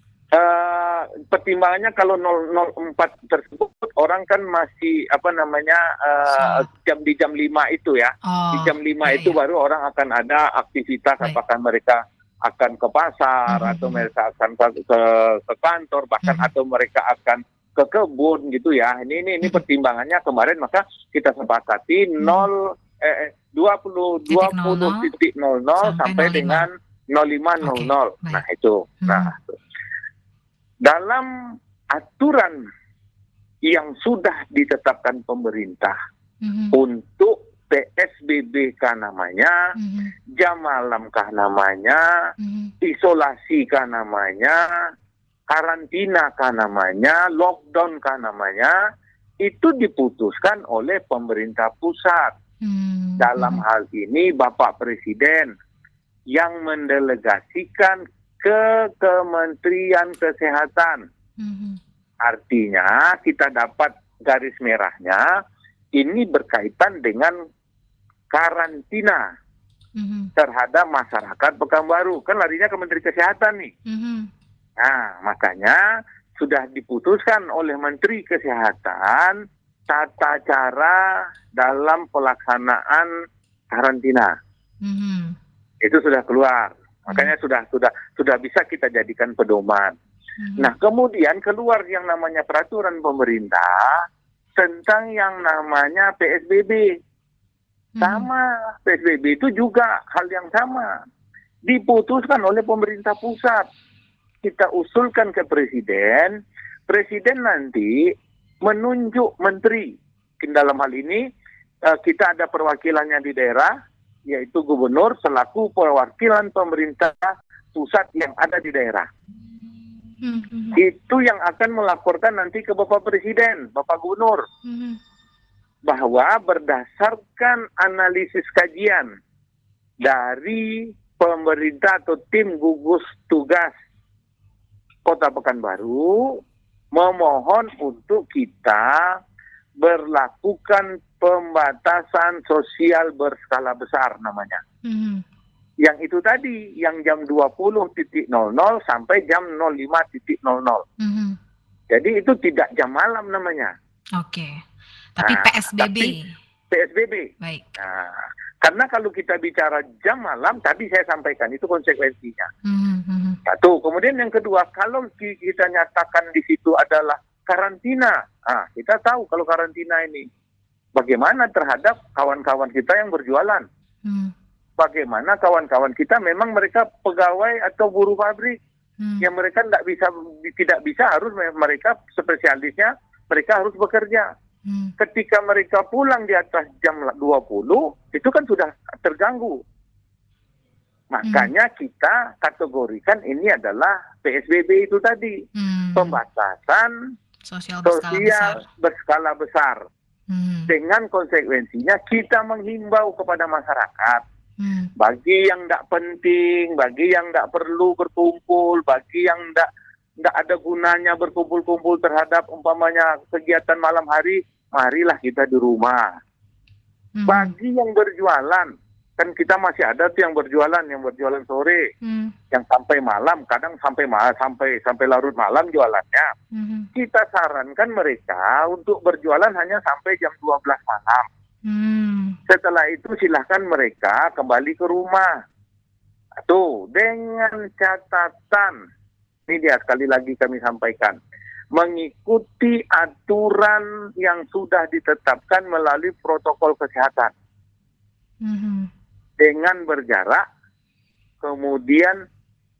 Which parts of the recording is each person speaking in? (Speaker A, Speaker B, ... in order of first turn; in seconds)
Speaker A: 0.3-29.5, 30.8-31.3, 31.9-32.6, 33.6-36.0, 36.7-39.6, 40.4-42.0, 42.8-44.6, 45.5-48.8, 49.4-52.3, 53.2-55.5, 56.3-61.0, 62.2-65.2, 65.9-67.3, 68.3-69.2, 70.4-73.7, 74.8-75.8, 76.4-83.1, 83.7-84.3, 85.8-89.9, 90.6-93.9, 94.5-96.9, 98.0-100.9, 101.6-103.7, 104.4-111.2, 111.8-113.7, 114.3-119.1, 120.7-124.4, 125.8-129.1, 130.0-133.7, 135.1-136.4, 136.9-139.2, 139.8-144.6, 145.8-150.8, 151.9-153.7, 155.2-156.1, 156.7-162.5, 163.4-170.3, 170.9-173.7, 174.8-178.6, 179.2-184.3, 185.0-189.6, 191.1-195.4, 195.9-196.9, 197.8-199.8, 200.7-204.2, 205.0-209.7, 210.2-216.1, 217.3-221.9, 222.5-226.3, 226.9-231.3, 232.5-235.3, 236.4-238.8, 239.5-241.2, 241.7-247.3, 249.4-250.4, 251.4-252.2
Speaker B: 6.3-6.7, 8.3-9.3, 13.5-14.1, 16.2-16.5, 22.2-22.5, 24.3-25.1, 25.8-26.6, 27.6-28.4, 29.0-29.3, 36.4-36.8, 39.8-40.1, 42.4-42.7, 52.6-53.6, 61.4-61.8, 70.0-70.3, 73.8-74.3, 84.8-85.3, 90.4-90.7, 98.0-98.2, 120.2-120.8, 124.6-125.0, 144.8-145.2, 151.0-151.3, 154.2-154.5, 155.2-156.2, 162.6-163.4, 174.0-174.3, 179.0-179.2, 184.7-184.9, 191.2-191.5, 195.6-196.2, 197.4-198.6, 200.3-200.7, 204.6-204.9, 217.1-217.5, 222.0-222.3, 226.5-226.9, 231.6-232.4, 248.4-248.9